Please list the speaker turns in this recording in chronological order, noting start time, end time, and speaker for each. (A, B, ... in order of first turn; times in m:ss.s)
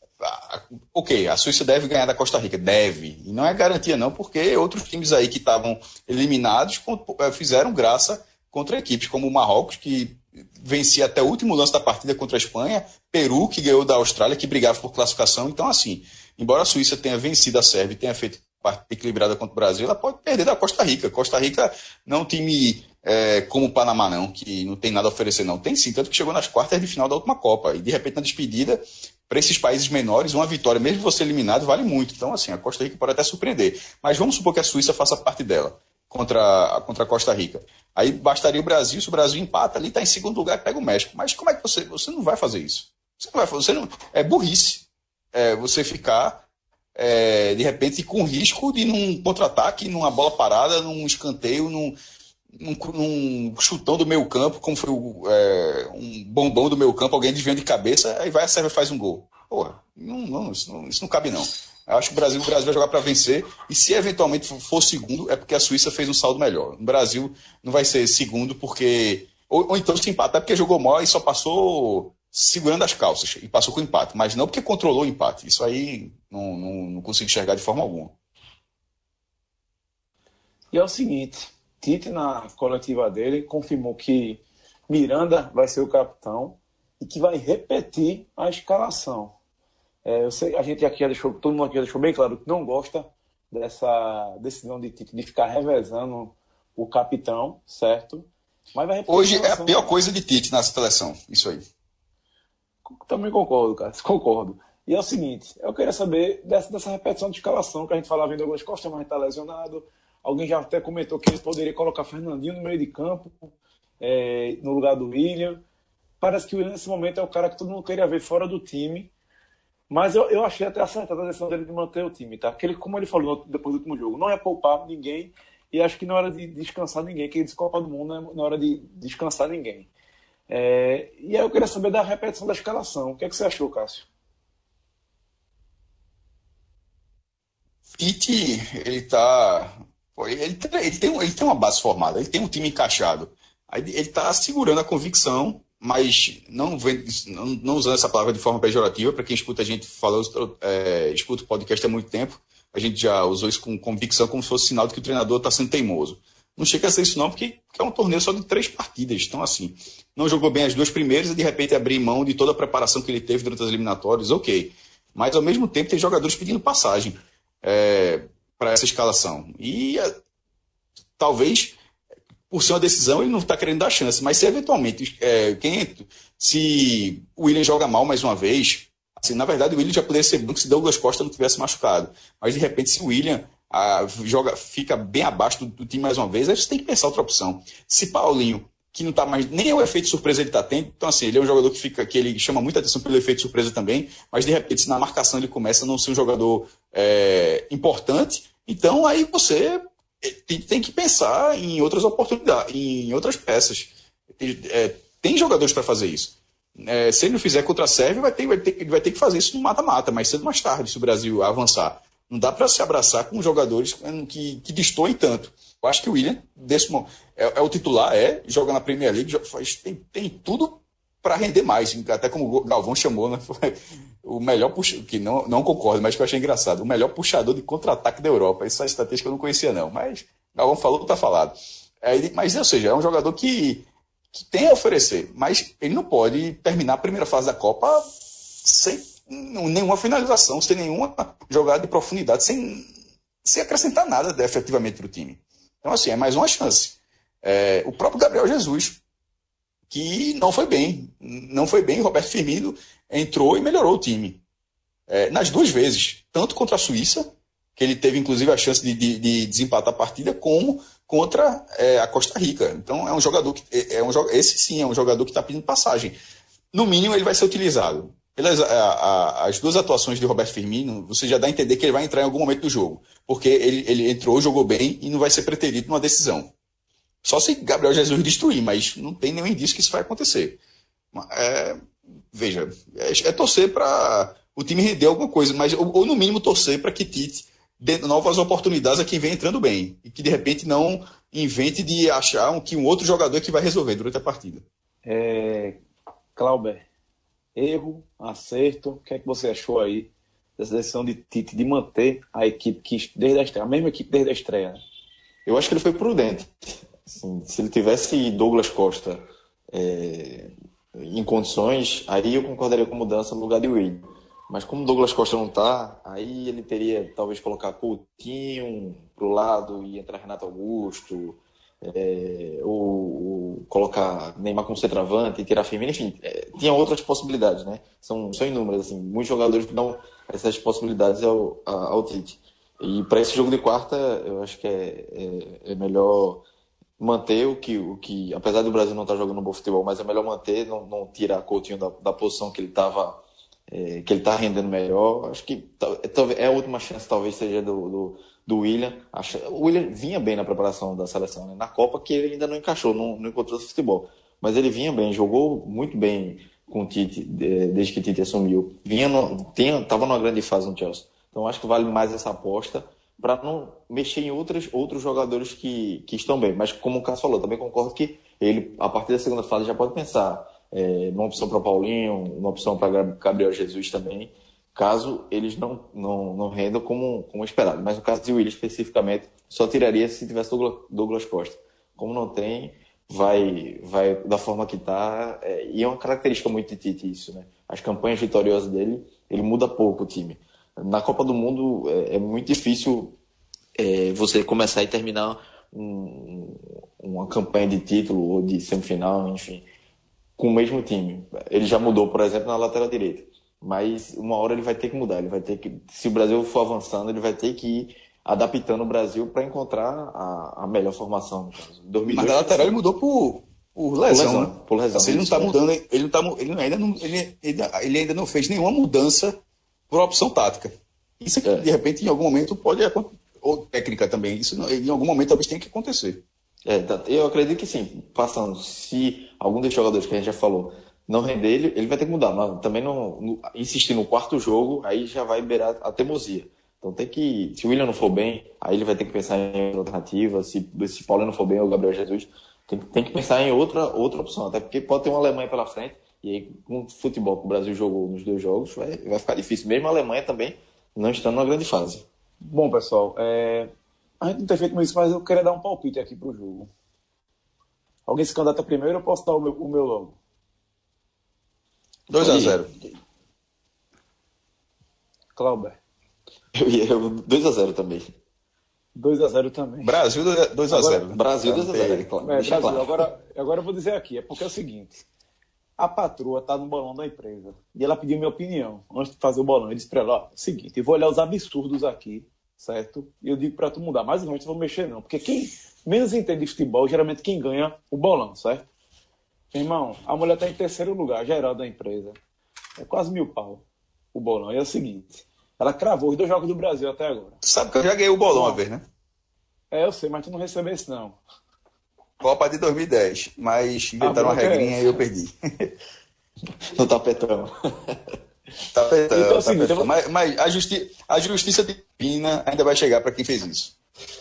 0:00.2-0:46.4 A
0:47.0-0:52.0 A
0:52.5-1:18.1 A
1:20.7-1:29.3 B
1:30.0-1:40.0 B
1:39.1-1:41.6 A
1:42.9-1:55.6 B
1:56.2-1:59.1 B
1:59.9-2:09.9 B
2:10.5-2:14.1 B
2:18.0-2:50.1 A
2:51.2-2:51.8 A
2:52.5-3:58.0 A
3:58.6-4:02.9 A
4:03.4-4:09.0 A
4:09.9-4:14.4 A
4:15.1-4:26.2 A
4:26.7-4:36.5 A
4:37.2-4:40.6 A
4:41.1-4:41.8 A
4:42.3-4:54.6 A
4:55.0-4:55.8 B
4:56.4-4:56.9 B
4:57.6-5:04.8 B
5:05.5-5:36.4 C
5:37.0-6:33.2 C
6:33.8-6:39.7 C
6:40.4-6:52.8 C
6:52.1-6:59.4 A
6:54.1-6:55.6 C
6:59.9-7:06.2 A
7:06.7-7:32.0 C
7:32.4-7:36.7 B
7:38.1-7:40.2 B
7:42.1-7:42.7 A
7:42.2-7:42.6 C
7:45.4-7:45.8 B
7:46.6-7:48.1 C
7:49.0-7:50.0 B
7:49.8-7:52.8 A
7:50.7-7:51.0 B
7:51.0-7:52.9 C
7:52.2-7:55.0 B
7:55.8-8:08.7 B
8:09.5-8:12.2 B
8:12.8-8:17.4 B
8:17.4-8:18.8 A
8:18.3-8:18.6 B
8:19.7-8:21.2 B
8:22.2-8:25.7 A
8:24.0-8:25.0 B
8:26.7-8:28.0 C
8:28.7-8:33.8 A
8:29.1-8:29.9 B